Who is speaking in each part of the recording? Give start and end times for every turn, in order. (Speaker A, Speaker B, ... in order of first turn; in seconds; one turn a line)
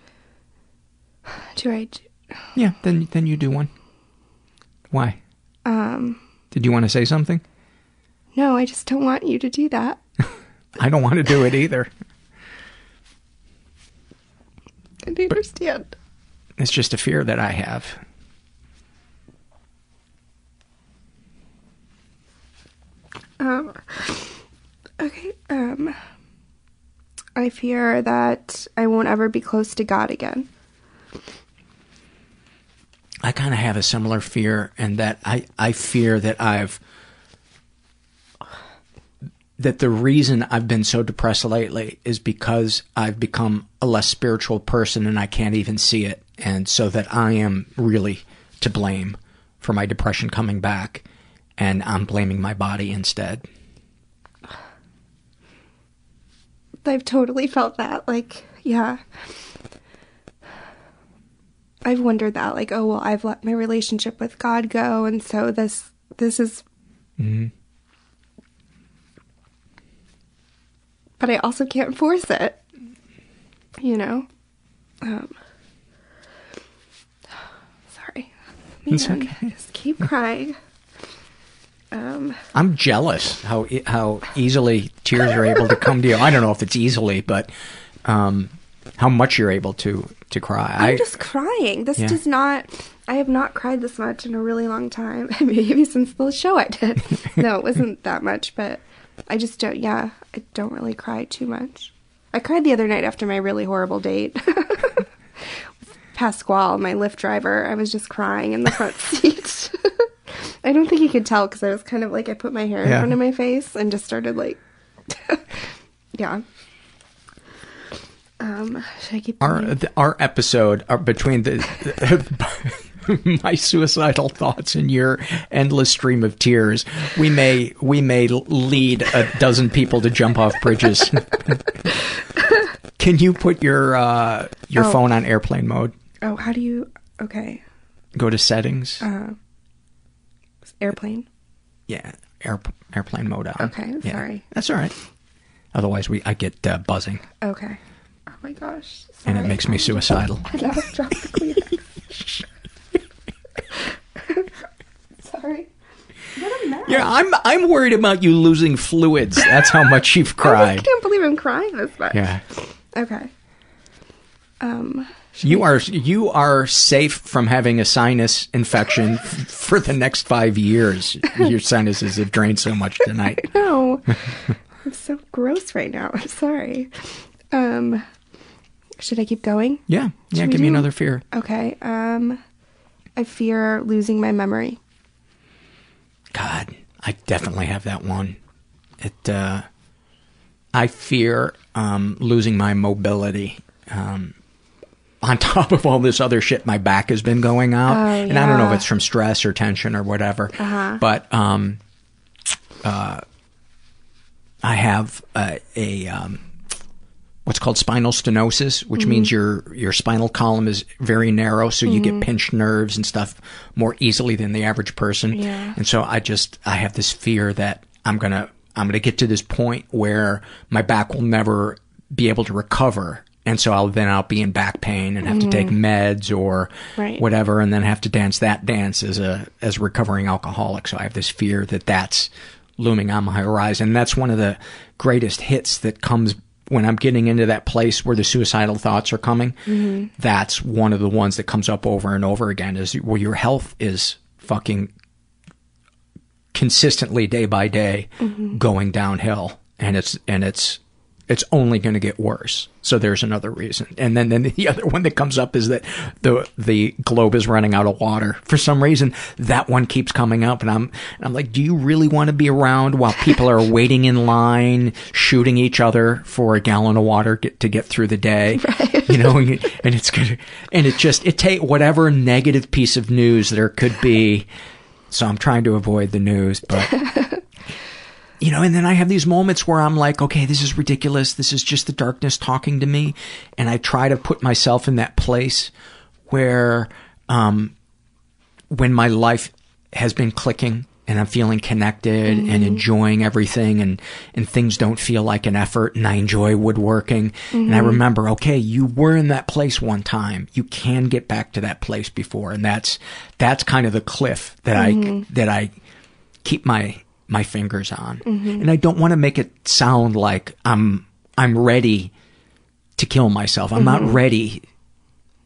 Speaker A: 1.5-2.4
Speaker B: 2.5-3.7
Speaker B: 4.9-5.2
Speaker A: 5.6-6.2
Speaker B: 6.5-7.4
Speaker A: 8.3-10.0
Speaker B: 10.8-11.9
Speaker A: 15.0-15.9
Speaker B: 16.6-18.0
Speaker A: 23.4-24.4
Speaker A: 25.0-25.9
Speaker A: 27.4-30.5
Speaker B: 33.2-36.8
Speaker B: 39.6-51.0
Speaker B: 51.6-53.5
Speaker A: 56.8-59.0
Speaker A: 61.8-66.6
Speaker B: 67.2-67.5
Speaker A: 71.2-72.6
Speaker A: 73.8-74.3
Speaker A: 75.0-75.3
Speaker A: 77.9-80.5
Speaker B: 78.9-79.5
Speaker A: 81.9-82.4
Speaker B: 82.5-87.5
Speaker B: 88.0-91.0
Speaker A: 90.8-105.0
Speaker A: 106.1-114.6
Speaker B: 112.8-113.2
Speaker A: 115.1-115.6
Speaker A: 116.1-116.4
Speaker A: 118.4-119.8
Speaker B: 119.4-131.6
Speaker B: 133.0-135.9
Speaker A: 136.2-137.6
Speaker B: 138.1-139.1
Speaker A: 139.0-139.4
Speaker A: 140.8-141.2
Speaker B: 141.9-144.9
Speaker A: 143.6-144.4
Speaker B: 145.7-147.2
Speaker A: 147.4-152.4
Speaker B: 149.2-150.6
Speaker A: 153.7-154.5
Speaker A: 155.2-155.7
Speaker A: 156.3-157.1
Speaker B: 156.8-160.9
Speaker A: 160.4-163.3
Speaker B: 162.1-162.4
Speaker A: 164.6-165.6
Speaker B: 165.4-173.4
Speaker A: 173.3-178.0
Speaker A: 179.0-182.4
Speaker B: 179.9-181.2
Speaker A: 183.2-184.8
Speaker B: 186.3-188.4
Speaker B: 189.0-189.7
Speaker B: 190.7-194.3
Speaker B: 195.2-201.8
Speaker A: 197.8-198.8
Speaker A: 200.6-201.0
Speaker B: 202.8-203.2
Speaker B: 204.6-206.4
Speaker B: 207.4-239.6
Speaker A: 209.0-209.3
Speaker A: 211.8-212.2
Speaker A: 215.3-215.8
Speaker A: 225.2-225.7
Speaker A: 227.0-227.2
Speaker A: 239.7-240.1
Speaker B: 240.2-244.9
Speaker B: 246.5-274.5
Speaker A: 248.2-248.6
Speaker A: 268.6-269.4
Speaker B: 275.1-276.9
Speaker A: 276.9-277.4
Speaker B: 278.4-285.7
Speaker B: 286.3-287.7
Speaker B: 288.7-305.7
Speaker A: 292.3-292.8
Speaker A: 297.5-298.0
Speaker A: 304.8-305.2
Speaker B: 306.4-312.1
Speaker A: 308.2-308.6
Speaker B: 312.9-314.6
Speaker A: 313.8-314.2